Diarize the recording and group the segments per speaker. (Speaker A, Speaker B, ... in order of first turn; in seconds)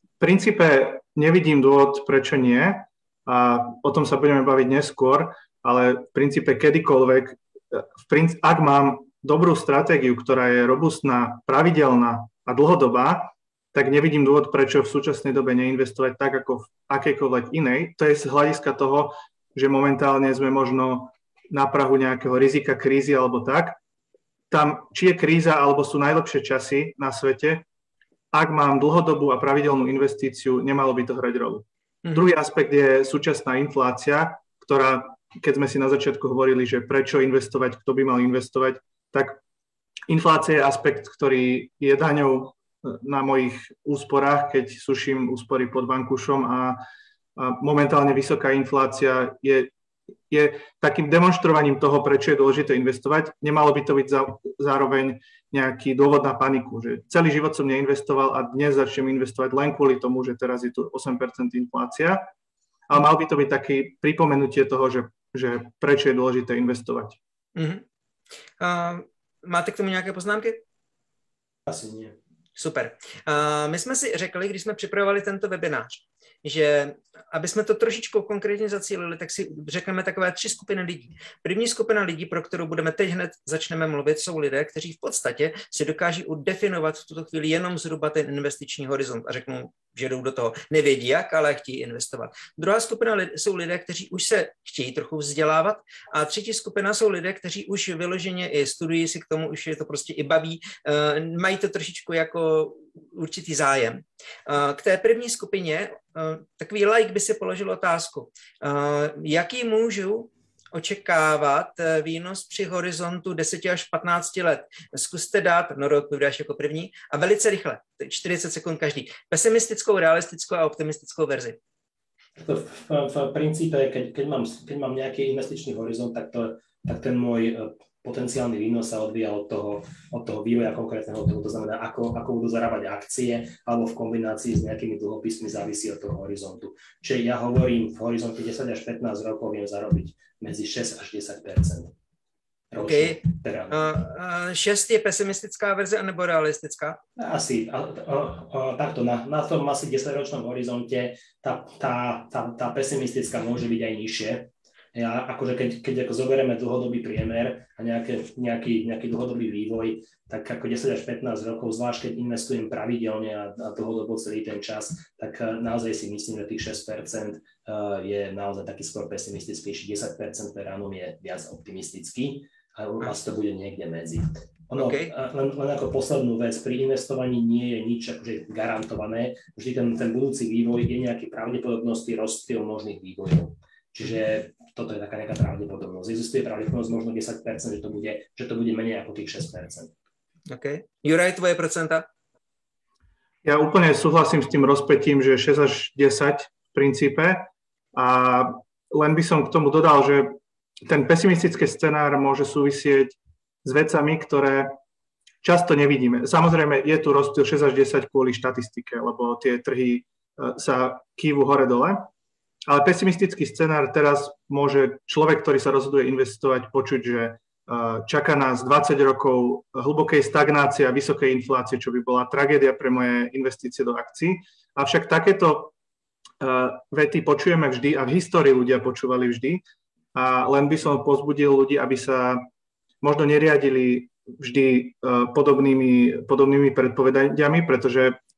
Speaker A: 0.2-23.8, 24.5-27.6, 28.3-39.4, 40.1-46.8, 47.4-49.7, 50.3-62.2, 62.9-67.2, 193.4-204.7, 205.4-212.1, 212.7-225.7, 226.4-229.6, 230.1-232.4, 233.0-238.2
Speaker B: 67.5-67.8, 68.6-70.6, 72.5-121.6, 142.8-147.0, 174.7-175.1, 190.5-192.1
Speaker C: 71.7-72.2, 122.4-141.9, 142.7-143.9, 147.2-189.9